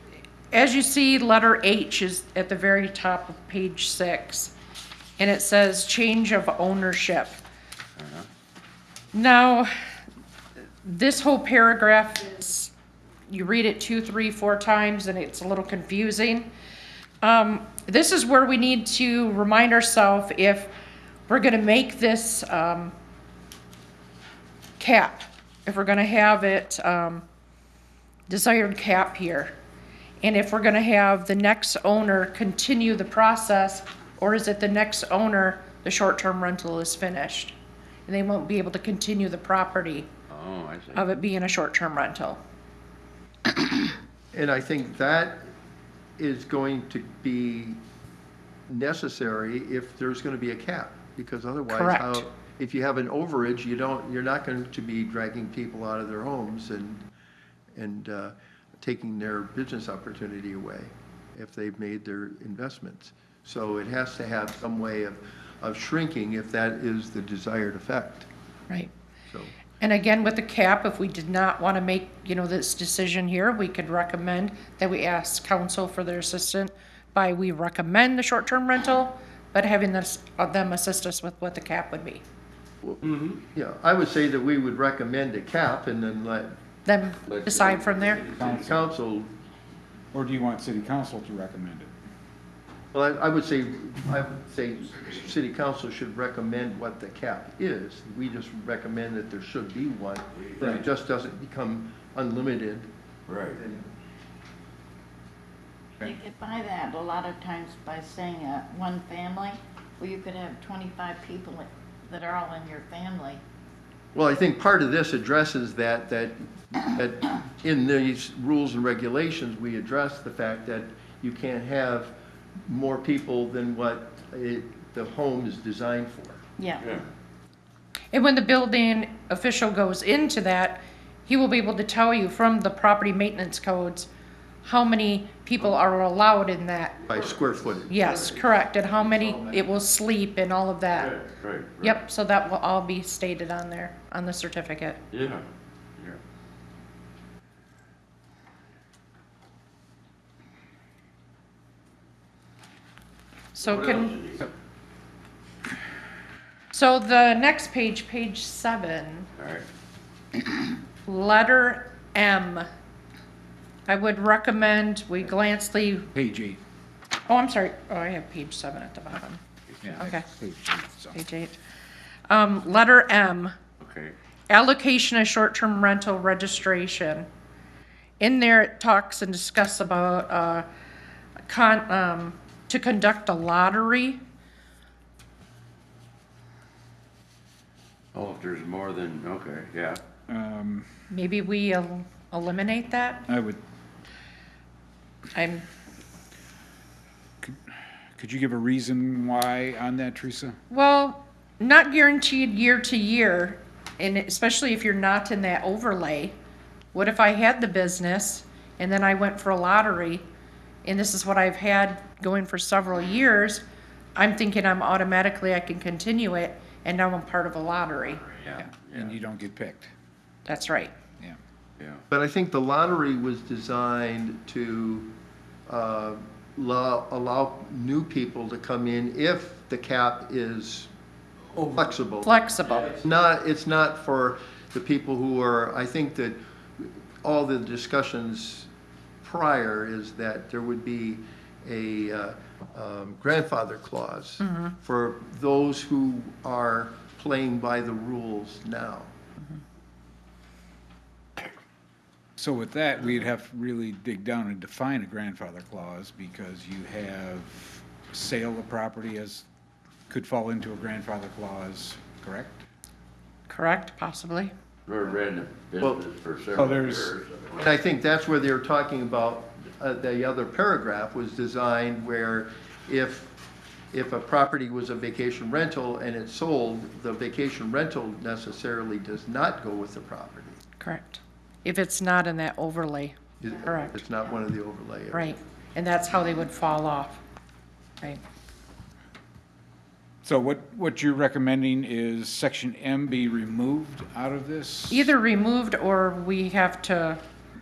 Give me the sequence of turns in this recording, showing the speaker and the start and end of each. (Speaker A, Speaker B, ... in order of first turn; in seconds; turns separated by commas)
Speaker A: 0.5-4.5, Speaker A: 5.2-7.4, Speaker B: 8.0-8.3, Speaker A: 9.1-9.7, Speaker A: 10.8-12.7, Speaker A: 13.3-16.5, Speaker A: 17.2-20.7, Speaker A: 21.3-22.9, Speaker A: 24.8-27.2, Speaker A: 28.3-29.5, Speaker A: 30.2-37.5, Speaker A: 38.1-40.1, Speaker B: 40.3-41.1, Speaker A: 41.0-42.4, Speaker C: 44.3-45.5, Speaker C: 46.2-47.8, Speaker C: 48.7-57.0, Speaker A: 51.7-52.2, Speaker C: 57.8-68.3, Speaker C: 69.3-69.6, Speaker A: 69.8-82.2, Speaker B: 83.0-83.4, Speaker C: 83.5-86.6, Speaker A: 86.9-88.2, Speaker B: 87.3-88.7, Speaker D: 88.3-88.8, Speaker C: 88.5-89.3, Speaker D: 90.1-91.9, Speaker C: 92.9-102.9, Speaker B: 103.3-103.6, Speaker C: 103.6-103.8, Speaker E: 106.0-113.4, Speaker C: 114.1-126.4, Speaker E: 126.6-126.8, Speaker B: 126.8-127.1, Speaker A: 128.1-134.1, Speaker A: 134.6-137.0, Speaker C: 137.1-139.8, Speaker B: 137.1-137.5, Speaker A: 137.9-141.2, Speaker B: 140.9-142.0, Speaker A: 141.8-145.0, Speaker B: 145.1-145.4, Speaker A: 153.5-154.2, Speaker B: 153.6-154.5, Speaker A: 156.7-159.3, Speaker B: 159.4-159.7, Speaker A: 161.1-162.7, Speaker A: 163.9-166.1, Speaker D: 166.2-166.6, Speaker A: 167.3-169.4, Speaker D: 169.8-171.2, Speaker A: 170.0-170.3, Speaker A: 171.1-171.6, Speaker A: 172.3-173.6, Speaker B: 173.8-174.2, Speaker A: 174.5-177.3, Speaker A: 178.2-180.7, Speaker A: 181.5-184.2, Speaker B: 188.1-190.0, Speaker D: 190.3-190.9, Speaker A: 191.1-193.2, Speaker D: 193.3-193.6, Speaker A: 195.3-195.7, Speaker D: 198.2-200.6, Speaker A: 200.7-206.4, Speaker A: 206.9-210.2, Speaker A: 210.8-213.6, Speaker A: 214.2-218.2, Speaker B: 218.2-219.1, Speaker D: 218.6-219.9, Speaker A: 220.5-220.9, Speaker C: 222.1-225.1, Speaker C: 225.7-230.9, Speaker C: 231.5-238.7, Speaker A: 232.2-232.9, Speaker C: 239.2-249.1, Speaker A: 244.4-244.7, Speaker D: 252.4-259.4, Speaker D: 260.1-262.6, Speaker A: 263.5-264.5, Speaker B: 264.9-267.7, Speaker D: 266.6-267.1, Speaker C: 267.6-273.4, Speaker C: 273.9-280.6, Speaker A: 280.8-284.0, Speaker C: 283.4-285.4, Speaker A: 285.1-287.2, Speaker D: 290.2-295.1, Speaker A: 294.9-297.2